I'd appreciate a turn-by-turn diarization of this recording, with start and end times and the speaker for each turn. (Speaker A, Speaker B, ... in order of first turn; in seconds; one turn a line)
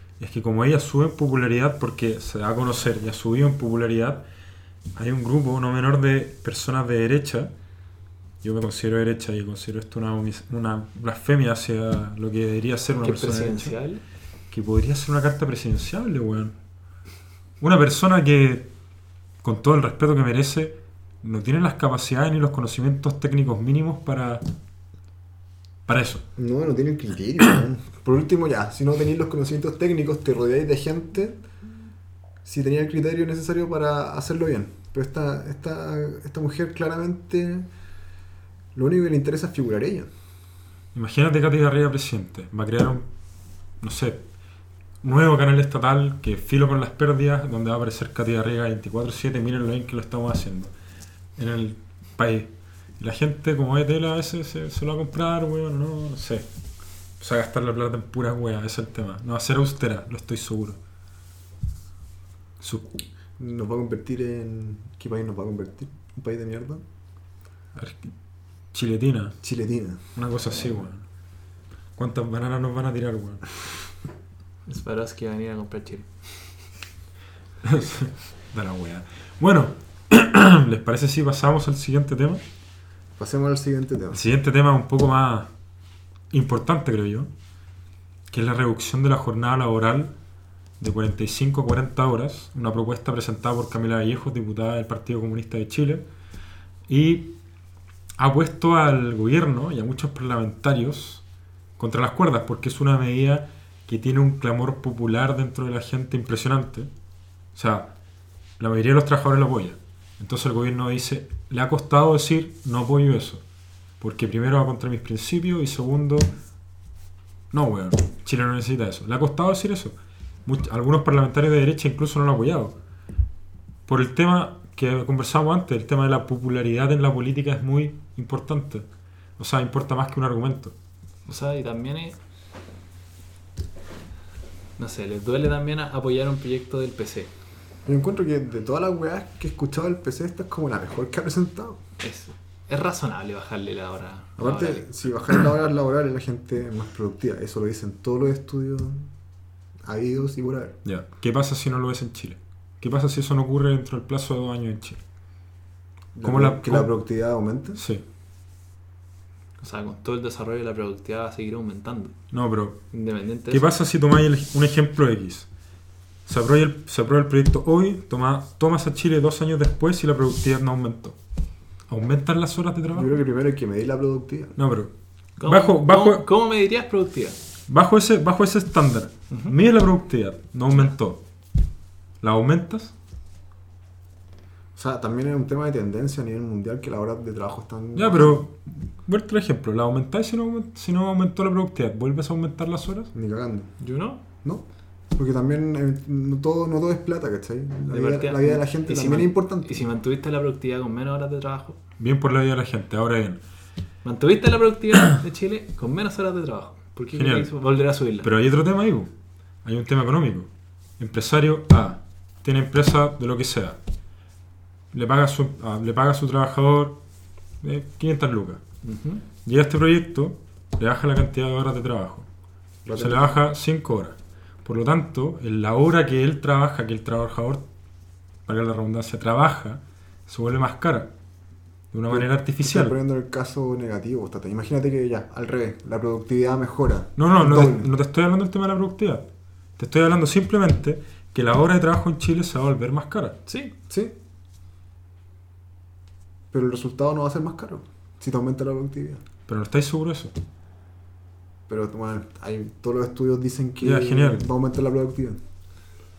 Speaker A: 0.2-4.2
Speaker A: 4.9-7.5
Speaker A: 8.4-13.7
Speaker B: 13.0-14.0
Speaker A: 14.5-16.5
Speaker A: 17.6-18.7
Speaker A: 19.4-24.4
Speaker A: 25.9-26.2
Speaker C: 26.4-31.4
Speaker C: 32.4-37.7
Speaker C: 38.7-40.1
Speaker A: 40.9-43.0
Speaker A: 43.8-44.2
Speaker A: 45.0-50.7
Speaker A: 51.4-56.5
Speaker A: 57.2-60.8
Speaker A: 62.6-63.0
Speaker C: 63.4-66.8
Speaker A: 67.8-68.1
Speaker A: 68.7-69.4
Speaker C: 69.4-70.0
Speaker A: 70.1-71.0
Speaker A: 72.0-73.5
Speaker B: 74.7-76.1
Speaker A: 77.6-82.4
Speaker C: 83.2-84.2
Speaker A: 84.1-85.5
Speaker A: 86.3-87.3
Speaker A: 88.3-90.1
Speaker A: 90.8-96.0
Speaker A: 96.9-97.3
Speaker A: 98.2-101.2
Speaker A: 101.8-106.9
Speaker A: 107.5-107.9
Speaker A: 108.6-113.4
Speaker A: 114.0-116.3
Speaker A: 117.5-122.7
Speaker A: 123.8-128.8
Speaker A: 129.4-130.7
Speaker B: 131.2-132.2
Speaker B: 134.8-137.3
Speaker C: 137.8-141.8
Speaker B: 142.0-144.8
Speaker C: 144.4-149.1
Speaker C: 149.8-150.8
Speaker A: 150.8-155.0
Speaker C: 156.1-157.8
Speaker A: 156.2-156.9
Speaker A: 157.7-158.0
Speaker B: 159.6-162.1
Speaker A: 162.3-162.8
Speaker B: 162.9-163.7
Speaker A: 163.5-165.5
Speaker A: 166.2-171.2
Speaker A: 171.9-173.1
Speaker C: 172.9-174.6
Speaker A: 174.6-174.9
Speaker B: 175.4-177.4
Speaker A: 175.4-176.2
Speaker A: 177.7-181.2
Speaker B: 179.3-179.5
Speaker A: 182.2-182.9
Speaker C: 184.8-188.4
Speaker A: 187.9-193.1
Speaker C: 193.1-193.7
Speaker B: 193.8-194.2
Speaker C: 195.2-199.8
Speaker B: 197.9-201.8
Speaker A: 202.0-203.4
Speaker B: 204.0-208.3
Speaker A: 207.1-207.5
Speaker A: 208.2-209.1
Speaker A: 209.6-210.5
Speaker A: 211.0-213.8
Speaker A: 214.9-216.9
Speaker A: 217.6-218.6
Speaker B: 218.8-219.2
Speaker A: 219.4-222.3
Speaker C: 222.8-223.4
Speaker A: 222.9-227.6
Speaker A: 228.5-231.1
Speaker A: 231.9-232.9
Speaker C: 232.1-237.9
Speaker A: 237.2-239.2
Speaker A: 239.8-243.3
Speaker B: 243.5-243.7
Speaker C: 243.9-244.1
Speaker C: 246.5-249.2
Speaker A: 249.4-250.3
Speaker C: 251.7-255.4
Speaker A: 253.8-254.5